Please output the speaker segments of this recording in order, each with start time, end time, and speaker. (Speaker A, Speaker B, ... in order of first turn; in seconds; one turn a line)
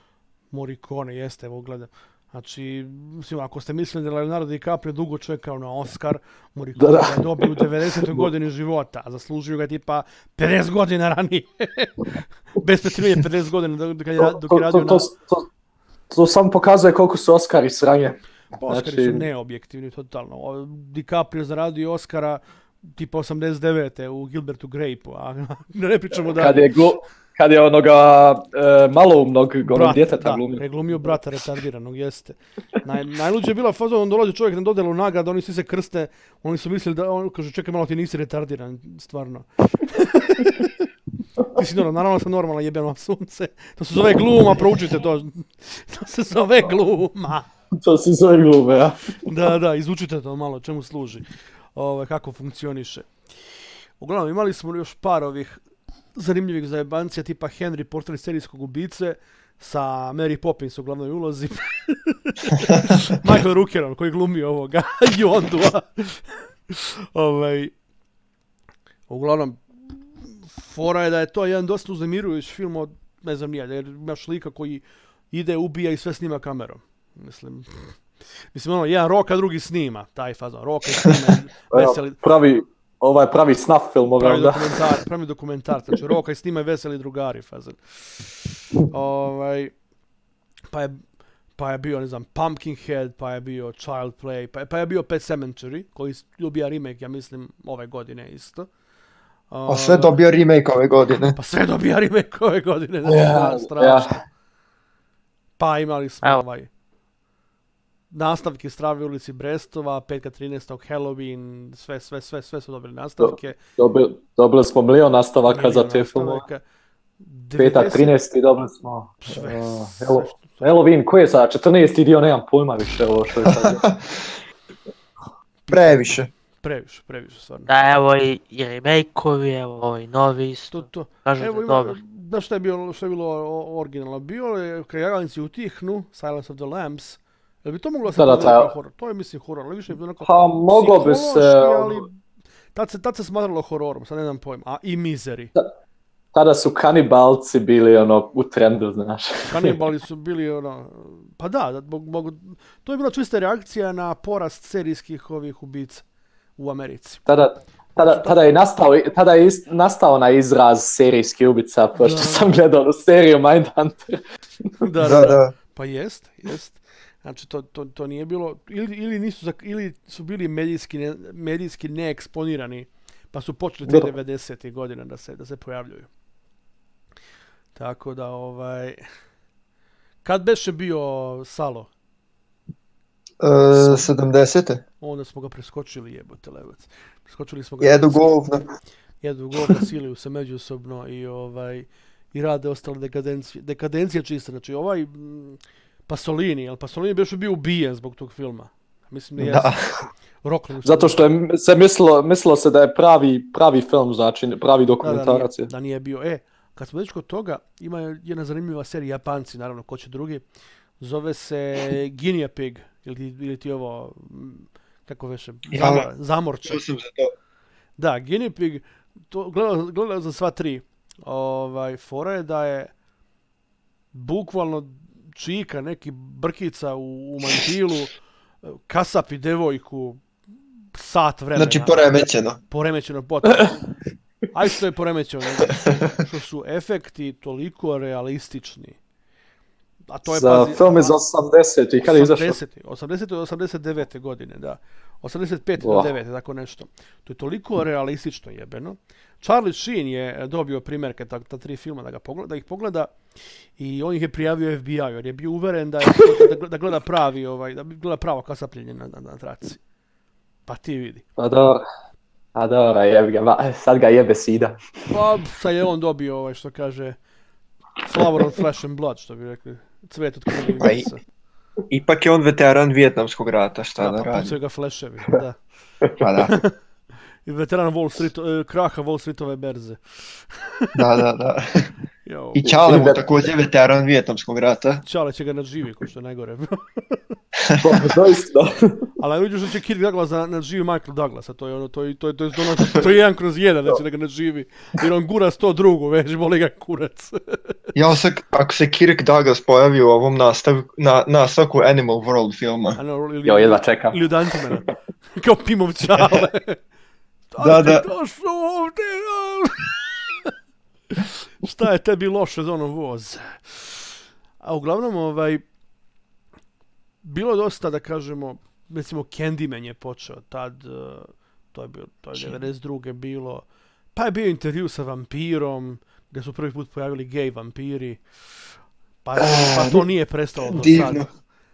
Speaker A: 0.5-15.1
Speaker B: 6.8-8.3
Speaker B: 14.2-15.4
Speaker B: 16.1-19.2
Speaker A: 18.5-22.4
Speaker A: 22.9-26.7
Speaker B: 26.3-30.6
Speaker A: 29.6-40.9
Speaker A: 41.5-47.5
Speaker B: 47.7-49.0
Speaker A: 49.2-51.2
Speaker A: 51.7-53.1
Speaker A: 54.0-55.6
Speaker A: 56.1-67.7
Speaker A: 69.1-78.0
Speaker A: 78.5-82.2
Speaker B: 81.7-84.8
Speaker A: 84.2-88.4
Speaker A: 88.9-89.7
Speaker A: 90.7-91.0
Speaker A: 91.6-98.7
Speaker A: 99.5-100.2
Speaker C: 99.7-101.4
Speaker A: 101.3-104.2
Speaker B: 103.1-104.1
Speaker A: 105.6-106.7
Speaker A: 108.1-113.6
Speaker B: 113.2-116.4
Speaker A: 115.4-116.6
Speaker A: 117.2-118.1
Speaker B: 117.6-123.8
Speaker A: 119.2-120.7
Speaker C: 123.5-124.0
Speaker A: 125.7-127.7
Speaker C: 125.7-126.3
Speaker D: 127.7-132.0
Speaker A: 130.7-142.1
Speaker B: 138.1-138.7
Speaker B: 140.2-142.1
Speaker A: 142.7-145.5
Speaker B: 146.3-149.7
Speaker A: 149.5-156.0
Speaker A: 156.6-157.2
Speaker B: 157.2-164.2
Speaker A: 157.9-158.4
Speaker A: 162.0-162.5
Speaker A: 164.8-176.1
Speaker C: 165.0-165.5
Speaker A: 177.7-179.0
Speaker A: 180.2-181.9
Speaker C: 183.4-184.8
Speaker A: 183.7-184.1
Speaker A: 185.0-188.3
Speaker C: 187.8-188.6
Speaker A: 189.2-199.8
Speaker C: 199.4-199.8
Speaker A: 200.4-201.2
Speaker B: 200.8-205.7
Speaker A: 205.0-210.4
Speaker A: 211.0-216.8
Speaker C: 215.7-216.1
Speaker C: 216.6-217.3
Speaker A: 218.0-222.9
Speaker A: 224.1-228.1
Speaker A: 228.6-230.2
Speaker A: 230.9-232.2
Speaker C: 231.5-232.6
Speaker A: 232.7-233.8
Speaker A: 234.5-239.0
Speaker C: 235.7-236.0
Speaker A: 240.1-241.2
Speaker B: 240.3-242.6
Speaker A: 242.0-253.2
Speaker B: 245.8-246.1
Speaker A: 253.8-259.8
Speaker A: 260.7-261.2
Speaker B: 261.4-261.8
Speaker B: 262.5-264.8
Speaker A: 265.1-267.2
Speaker A: 268.0-271.2
Speaker C: 270.8-271.1
Speaker C: 271.9-274.6
Speaker A: 274.0-275.6
Speaker C: 276.2-276.6
Speaker A: 276.4-276.7
Speaker A: 277.4-280.9
Speaker C: 280.9-281.9
Speaker A: 282.2-282.8
Speaker C: 282.6-285.0
Speaker B: 282.6-283.2
Speaker A: 285.0-287.2
Speaker C: 287.6-288.0
Speaker B: 287.8-289.1
Speaker A: 289.2-297.6
Speaker C: 297.9-303.0
Speaker A: 302.9-306.8
Speaker B: 303.4-304.2
Speaker A: 307.5-310.5
Speaker C: 307.6-308.1
Speaker A: 311.1-315.6
Speaker A: 317.2-328.2
Speaker A: 329.2-331.3
Speaker B: 329.4-330.0
Speaker C: 330.7-331.2